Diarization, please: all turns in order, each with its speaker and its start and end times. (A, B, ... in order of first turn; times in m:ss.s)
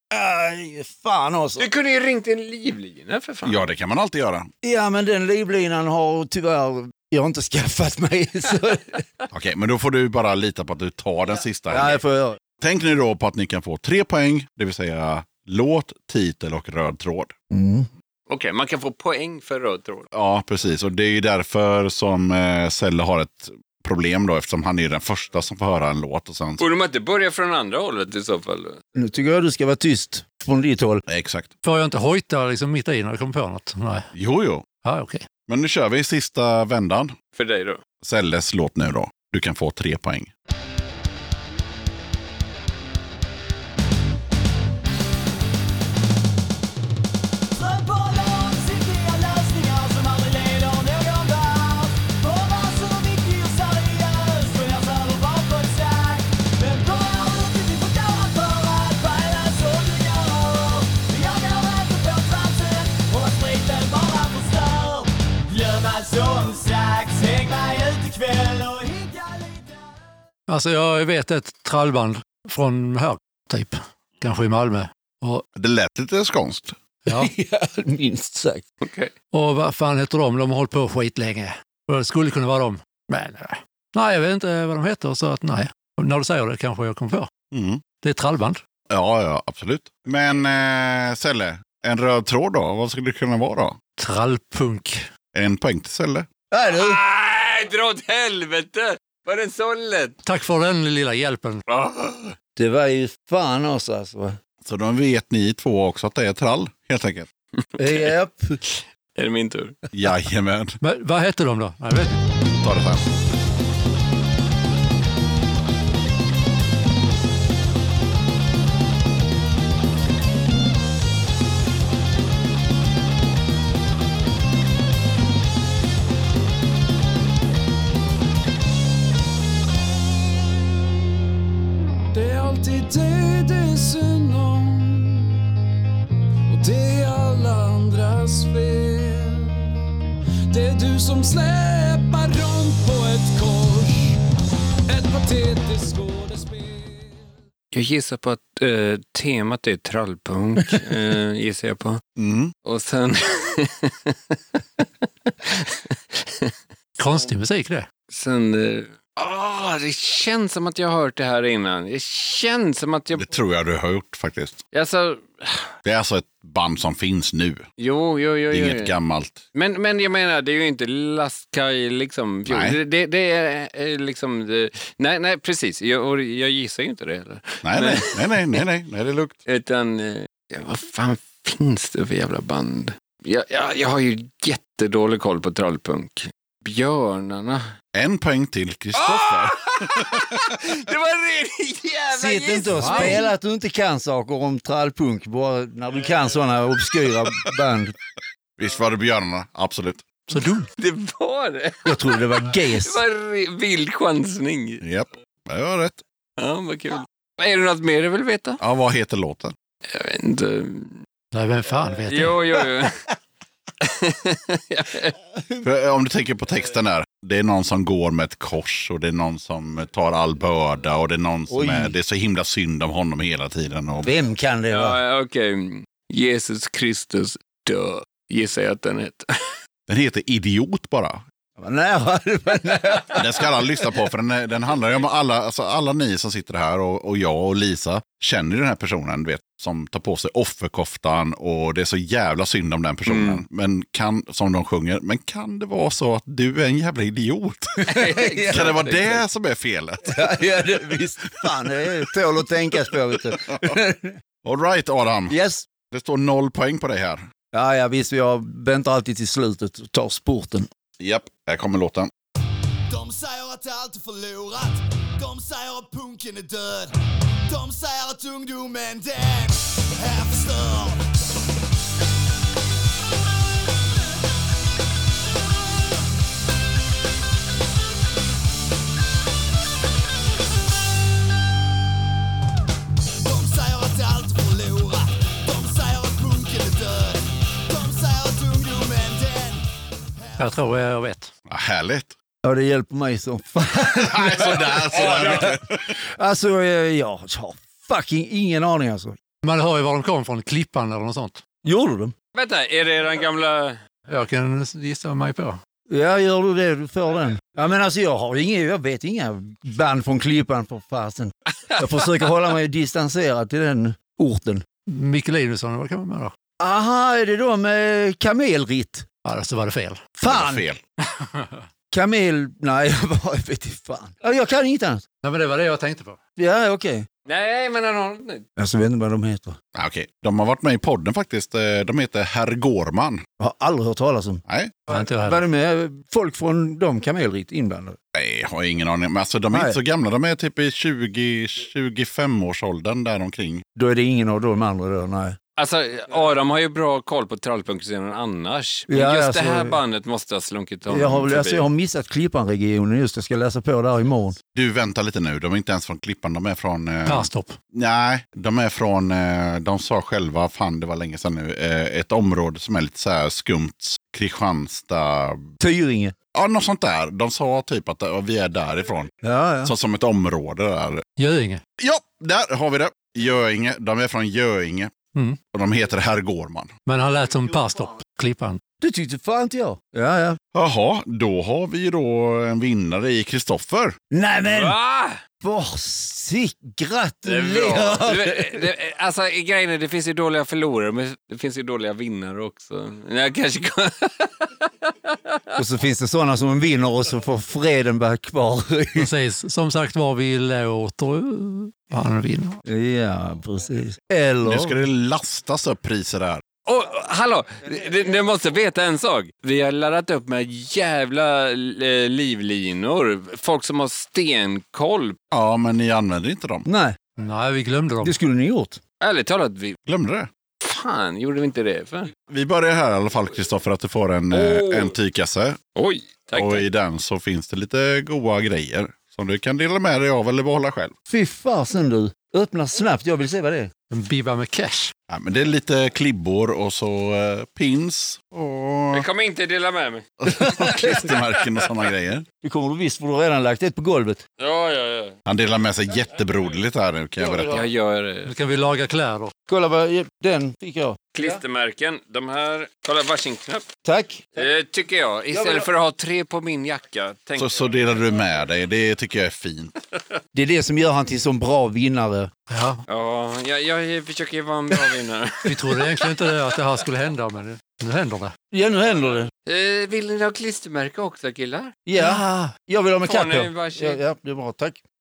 0:00.1-0:01.7 A
0:01.6-0:03.6 B
0:03.4-0:04.5 C
0:04.6-0:09.0 A
0:09.3-0:12.0 C
0:11.7-0:12.4 A
0:12.6-0:17.3 C
0:17.5-0:17.9 A
0:18.3-0:20.1 B
0:20.1-0:26.7 C
0:26.6-0:28.8 B
0:28.9-0:31.0 A
0:31.1-0:31.5 C
0:31.6-0:34.1 D
0:34.1-0:34.6 C
0:34.8-0:35.3 D
0:35.5-0:37.1 C
0:37.3-0:37.8 B
0:38.0-0:40.3 C
0:47.6-1:00.1 E
1:03.3-1:03.7 E
1:06.1-1:09.5 E
1:10.5-1:15.4 D
1:15.6-1:16.8 C
1:17.1-1:17.3 D
1:17.1-1:18.6 A
1:18.8-1:19.1 B
1:19.3-1:27.3 D
1:27.5-1:27.8 C
1:28.0-1:28.6 D
1:28.9-1:33.8 C
1:34.0-1:35.0 D
1:35.3-1:36.3 C
1:36.5-1:37.0 A
1:36.7-1:40.2 B
1:40.2-1:41.6 D
1:41.7-1:42.3 B
1:42.6-1:44.4 A
1:44.6-1:47.3 C
1:47.8-1:48.1 B
1:47.8-1:48.6 A
1:48.6-1:49.7 B
1:49.9-1:50.8 C
1:50.8-1:52.2 D
1:52.5-1:53.0 C
2:12.1-2:15.4 F
2:16.5-2:19.7 F
2:20.5-2:24.2 F
2:24.9-2:27.2 F
2:27.7-2:32.0 B
2:32.2-2:32.5 C
2:32.6-2:34.1 B
2:35.4-2:36.5 B
2:37.0-2:37.9 D
2:38.1-2:43.2 B
2:43.1-2:44.6 C
2:44.7-2:45.7 B
2:45.8-2:47.7 C
2:47.8-2:48.9 B
2:48.5-2:49.4 C
2:49.5-2:58.6 B
2:52.5-2:52.8 C
2:57.6-2:59.4 C
2:59.5-3:07.6 B
3:07.9-3:10.4 C
3:08.9-3:13.3 B
3:12.1-3:17.9 A
3:12.8-3:13.2 D
3:18.6-3:20.1 C
3:20.3-3:20.7 D
3:20.8-3:24.8 B
3:21.8-3:23.0 A
3:24.8-3:26.0 C
3:26.4-3:28.6 B
3:28.6-3:29.5 C
3:29.9-3:31.0 B
3:31.3-3:32.4 D
3:32.0-3:33.0 B
3:33.8-3:35.1 B
3:35.6-3:44.1 C
3:41.5-3:41.9 A
3:44.0-3:45.0 A
3:44.7-3:49.2 B
3:49.9-3:51.2 C
3:51.6-3:53.5 A
3:53.2-4:07.8 C
4:03.0-4:03.4 B
4:07.8-4:09.2 B
4:07.8-4:08.8 A
4:08.5-4:10.8 C
4:10.0-4:14.2 A
4:12.9-4:13.8 C
4:14.4-4:17.2 C
4:15.3-4:15.7 A
4:17.5-4:20.7 A
4:21.0-4:22.1 C
4:22.9-4:26.9 E
4:27.5-4:31.0 E
4:43.2-4:49.6 E
4:50.4-4:51.3 D
4:51.5-4:52.1 C
4:52.4-4:55.6 A
4:53.9-4:55.8 C
4:54.9-4:55.4 B
4:56.1-4:59.2 A
4:59.4-5:01.4 D
5:01.6-5:02.1 A
5:02.3-5:03.8 B
5:04.1-5:05.6 D
5:05.9-5:14.6 A
5:14.9-5:16.3 D
5:16.6-5:19.0 A
5:19.2-5:20.1 D
5:20.2-5:20.6 A
5:20.2-5:20.8 C
5:21.9-5:25.0 A
5:25.2-5:26.2 D
5:26.4-5:27.1 A
5:27.2-5:28.4 B
5:28.6-5:29.6 A
5:29.7-5:33.2 C
5:33.4-5:38.0 A
5:34.5-5:34.8 C
5:34.9-5:35.4 D
5:38.1-5:43.6 C
5:39.5-5:39.8 A
5:43.7-5:45.4 A
5:45.6-5:51.7 B
5:48.9-5:49.8 A
5:50.9-5:54.4 A
5:54.5-6:05.5 C
5:57.0-5:57.6 D
6:05.6-6:06.1 A
6:06.3-6:09.1 C
6:09.2-6:09.7 A
6:09.6-6:11.0 C
6:11.2-6:11.6 D
6:11.8-6:14.9 C
6:15.1-6:15.4 D
6:15.5-6:16.7 C
6:16.8-6:18.6 D
6:18.8-6:20.4 A
6:20.5-6:24.0 C
6:24.1-6:24.8 A
6:24.4-6:25.2 B
6:25.4-6:28.6 A
6:27.2-6:35.4 B
6:35.6-6:39.1 A
6:38.9-6:42.6 D
6:42.6-6:44.8 A
6:44.4-6:46.4 C
6:46.6-6:55.2 B
6:55.3-6:56.7 C
6:56.6-6:57.0 A
6:57.2-6:58.2 D
6:58.0-6:58.8 A
6:59.0-6:59.8 B
6:59.8-7:00.3 C
7:00.6-7:02.1 B
7:02.3-7:05.6 C
7:04.3-7:04.9 B
7:05.7-7:06.6 B
7:06.3-7:10.9 C
7:11.1-7:13.7 A
7:13.9-7:14.9 D
7:15.1-7:19.0 C
7:18.9-7:20.1 B
7:20.2-7:22.2 C
7:20.4-7:21.0 A
7:20.7-7:21.6 B
7:22.4-7:24.2 A
7:24.4-7:25.2 B
7:25.2-7:27.6 C
7:27.2-7:27.6 A
7:27.4-7:28.3 B
7:28.2-7:29.3 D
7:29.5-7:31.4 A
7:31.1-7:33.6 B
7:33.8-7:34.4 A
7:34.3-7:37.6 B
7:35.3-7:35.7 A
7:37.4-7:39.7 C
7:40.3-7:42.3 A
7:42.5-7:42.8 D
7:42.9-7:46.4 B
7:45.5-7:48.3 D
7:48.5-7:49.3 A
7:49.5-7:51.8 B
7:51.8-7:54.8 A
7:52.0-7:52.2 D
7:53.0-7:54.0 B